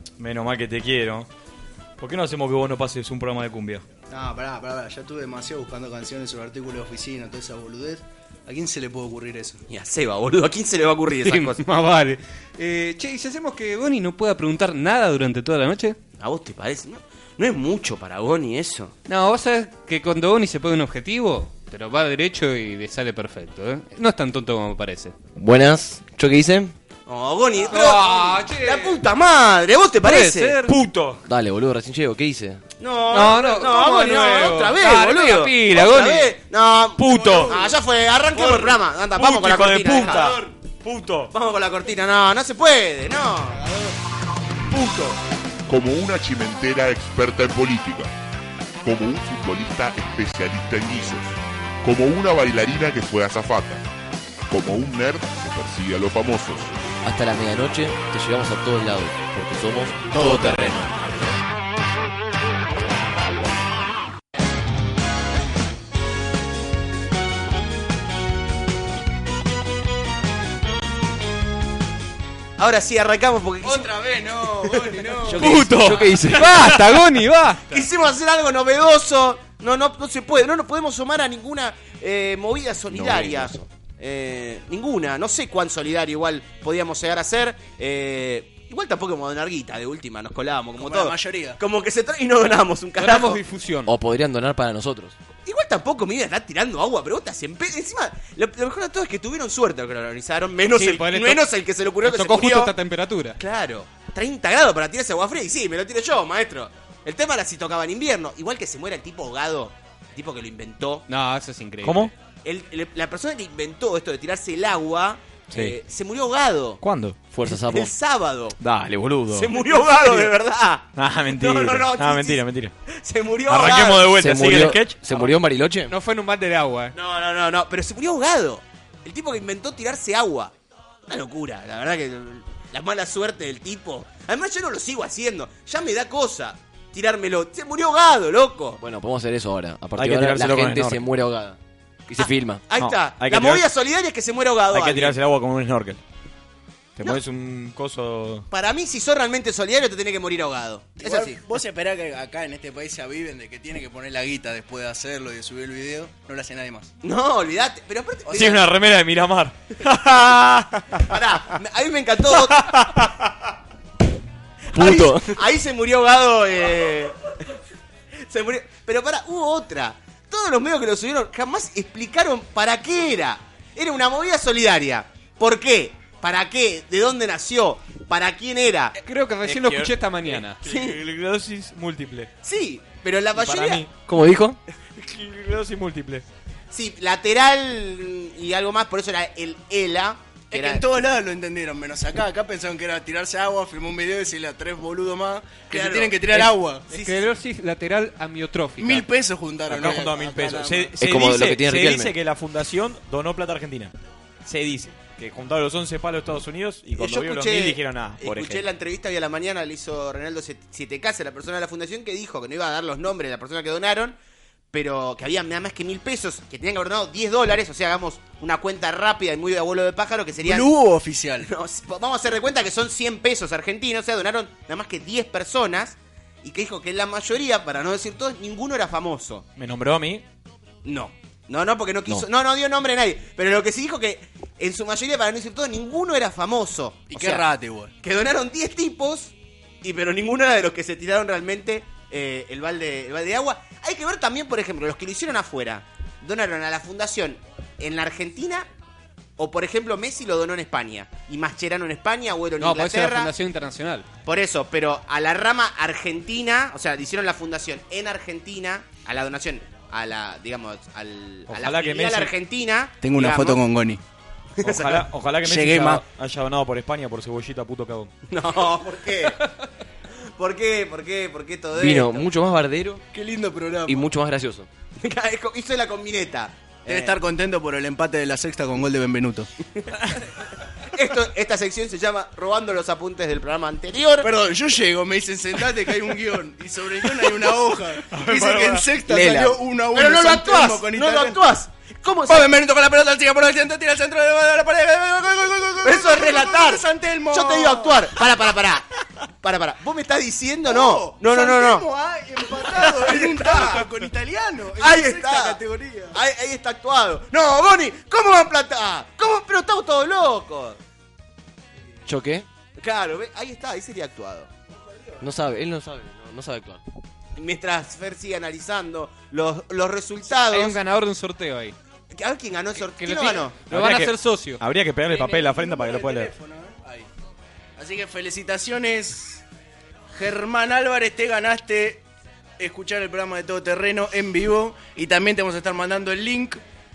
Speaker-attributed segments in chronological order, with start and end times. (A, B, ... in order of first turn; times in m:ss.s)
0:00.2-0:01.3 A
0:02.0-0:03.8 A
0:04.1-0:09.6 B
0:09.7-0:11.6 C
0:11.2-0:16.0 D
0:16.2-0:18.9 C
0:19.1-0:25.2 D
0:25.4-0:26.8 E
0:27.1-0:30.6 C
0:27.7-0:29.0 D
0:30.0-0:30.8 D
0:30.6-0:31.2 A
0:31.2-0:32.6 E
0:32.8-0:40.4 C
0:33.1-0:36.4 D
0:37.0-0:37.5 A
0:37.1-0:37.8 B
0:38.3-0:41.3 A
0:40.0-0:40.5 B
0:41.3-0:43.7 C
0:44.7-0:45.2 A
0:45.7-0:48.1 F
0:48.8-0:53.8 F
0:54.5-0:56.8 F
0:57.0-1:01.0 E
1:00.3-1:00.8 C
1:12.6-1:13.9 C
1:13.6-1:15.7 B
1:14.6-1:15.3 C
1:15.2-1:16.9 E
1:15.4-1:17.9 D
1:17.7-1:33.4 C
1:22.9-1:23.7 E
1:30.8-1:31.6 B
1:33.0-1:33.9 D
1:33.9-1:35.2 E
1:35.4-1:42.7 C
1:40.7-1:41.4 D
1:42.2-1:43.4 D
1:43.4-1:51.1 C
1:51.1-1:52.1 D
1:51.8-1:52.1 A
1:52.4-1:56.8 C
1:55.5-1:55.8 A
1:56.8-1:57.2 A
1:57.3-1:57.9 E
1:57.5-1:58.6 C
1:58.6-2:00.3 A
1:59.3-2:05.3 C
2:01.0-2:02.7 A
2:03.5-2:05.0 A
2:04.1-2:05.9 E
2:05.9-2:07.0 D
2:06.9-2:10.5 C
2:11.1-2:18.8 C
2:18.8-2:22.7 E
2:20.0-2:21.1 A
2:22.7-2:25.2 C
2:22.7-2:23.7 A
2:24.7-2:26.0 A
2:27.0-2:28.5 A
2:28.5-2:31.4 C
2:31.0-2:36.9 B
2:37.0-2:38.7 C
2:38.3-2:41.1 A
2:39.9-2:43.0 C
2:42.3-2:43.2 A
2:44.7-2:47.3 C
2:44.7-2:45.4 E
2:48.2-2:59.0 C
2:59.0-3:00.6 D
2:59.4-3:02.3 A
3:00.6-3:01.0 C
3:02.4-3:03.9 C
3:03.4-3:03.9 A
3:04.1-3:04.6 E
3:05.0-3:06.3 A
3:06.7-3:10.8 C
3:10.5-3:16.8 B
3:15.7-3:17.3 C
3:16.9-3:19.1 D
3:18.8-3:21.0 B
3:19.7-3:23.9 A
3:21.0-3:22.2 E
3:24.4-3:28.6 A
3:27.0-3:34.2 C
3:34.7-3:40.7 C
3:40.4-3:41.5 B
3:41.4-3:49.4 C
3:49.6-3:50.2 A
3:50.8-3:57.5 C
3:57.1-3:57.9 B
3:58.0-4:08.7 C
4:09.4-4:13.3 C
4:12.6-4:14.1 D
4:14.3-4:23.6 C
4:21.5-4:22.3 A
4:23.0-4:24.0 B
4:24.6-4:25.1 C
4:24.6-4:28.1 A
4:25.4-4:26.0 B
4:28.3-4:29.5 C
4:30.4-4:32.3 C
4:31.8-4:33.0 E
4:33.1-4:34.1 B
4:33.9-4:34.7 E
4:35.0-4:37.1 C
4:36.9-4:39.5 B
4:40.8-4:44.3 C
4:44.2-4:51.4 B
4:48.1-4:48.9 A
4:49.1-4:52.5 C
4:52.3-4:58.2 B
4:55.8-5:01.9 C
5:00.6-5:06.2 B
5:02.6-5:03.8 C
5:04.8-5:05.6 C
5:06.1-5:10.8 C
5:12.1-5:12.5 E
5:12.8-5:14.5 C
5:15.2-5:16.8 E
5:17.4-5:20.8 C
5:20.4-5:21.8 D
5:22.1-5:23.6 C
5:22.8-5:24.6 D
5:23.7-5:26.3 A
5:25.0-5:27.1 B
5:27.8-5:29.4 B
5:30.1-5:32.0 B
5:32.6-5:36.6 B